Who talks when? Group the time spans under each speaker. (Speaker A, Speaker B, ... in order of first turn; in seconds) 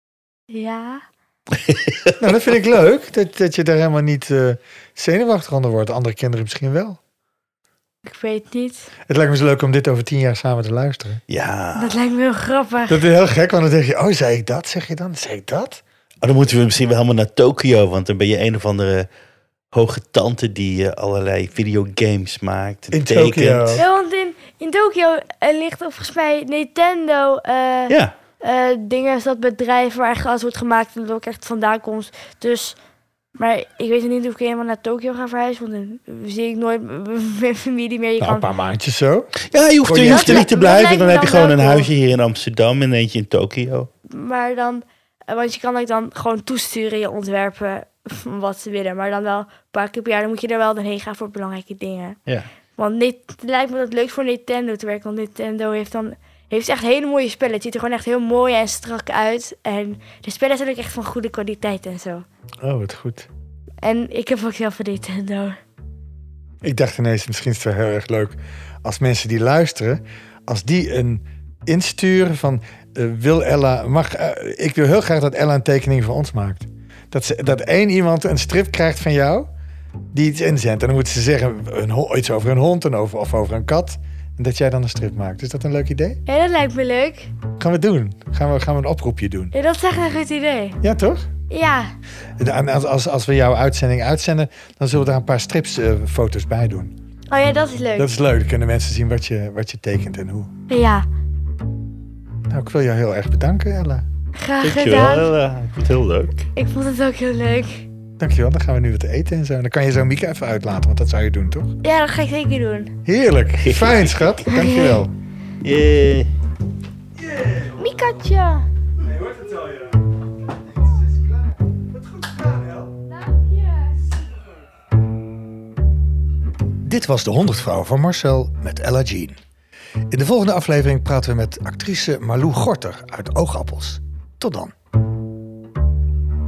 Speaker A: 0.5-1.0, 8.1-8.9, 11.8-13.0, 23.8-32.8, 33.4-38.5, 40.0-41.9, 44.1-52.2, 52.8-62.2, 63.8-65.6, 86.3-87.3, 89.5-90.8, 91.5-91.9, 97.3-98.1, 100.7-101.0, 104.4-105.3, 106.5-107.8, 111.8-113.0, 114.5-115.0, 117.8-118.7, 123.1-124.0
Speaker B: 1.6-2.2, 11.3-12.0, 16.2-19.1, 19.7-23.8, 39.5-43.9, 104.6-106.3, 113.6-114.4, 115.6-116.3
Speaker C: 2.2-7.0, 9.1-11.2, 12.9-15.8, 22.9-23.8, 38.2-39.3, 39.8-40.5, 62.6-63.3, 66.6-79.5, 80.1-86.2, 87.6-89.5, 90.8-91.2, 92.4-96.9, 98.0-100.5, 102.5-104.0, 108.2-111.8, 113.0-115.1, 117.2-117.8, 119.0-120.0, 120.8-122.9, 126.8-129.4, 130.1-134.7